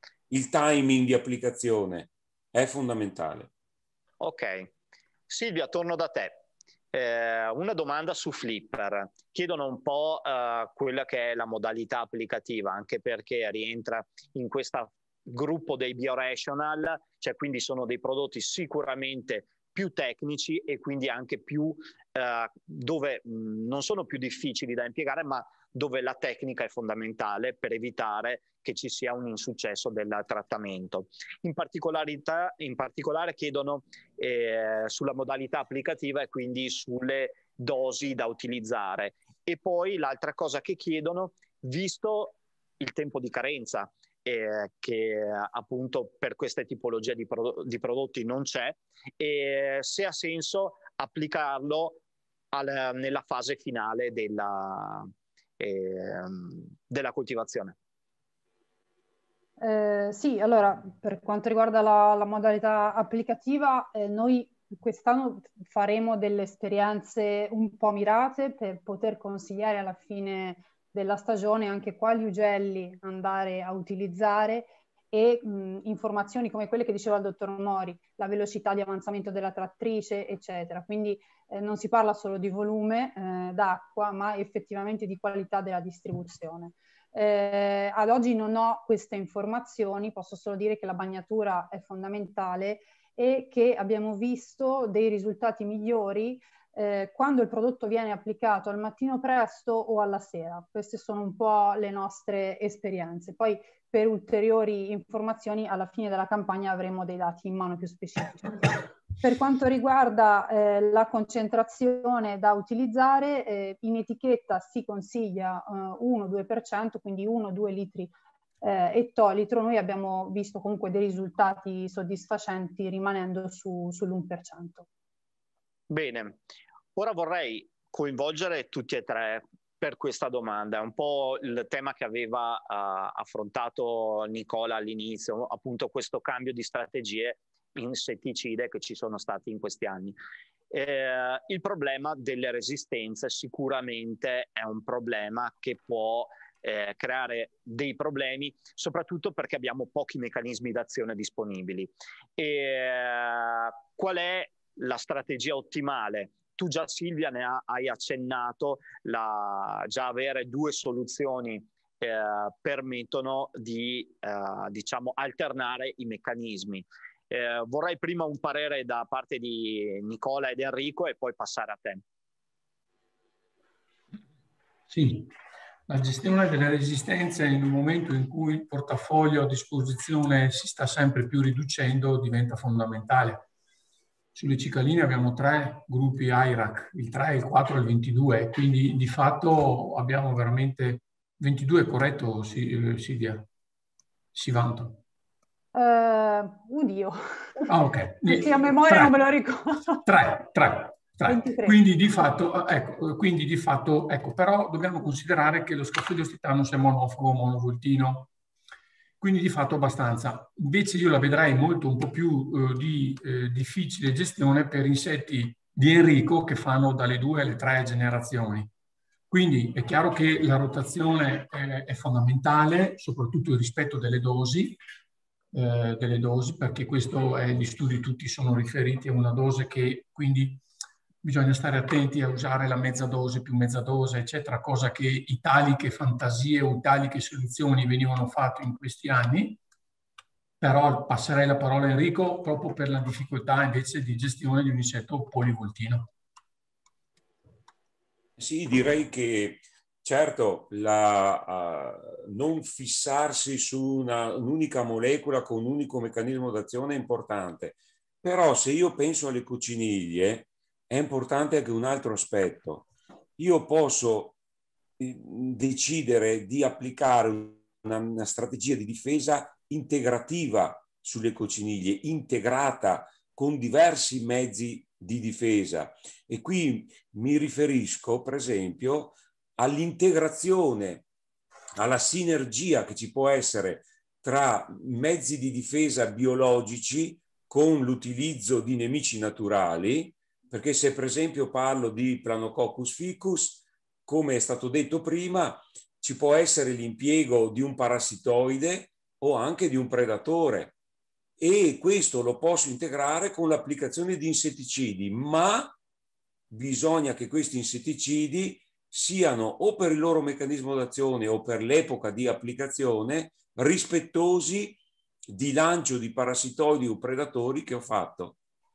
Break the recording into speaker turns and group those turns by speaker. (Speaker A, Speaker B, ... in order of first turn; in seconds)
Speaker A: 0.3-3.5, 248.4-264.4, 265.0-281.1, 281.8-300.7, 301.4-305.7, 306.5-318.4
Speaker B: 4.2-4.7, 5.3-52.0, 52.5-57.8, 125.9-126.4, 126.9-140.2, 140.7-172.0
Speaker C: 59.6-124.9, 195.7-197.7, 198.3-200.0, 201.2-201.8
Speaker D: 174.9-175.3, 175.9-183.4, 184.3-193.5, 194.3-195.0, 197.7-199.1, 200.0-208.3, 209.2-218.7, 219.3-224.8, 225.5-230.6, 231.2-239.6, 240.6-246.1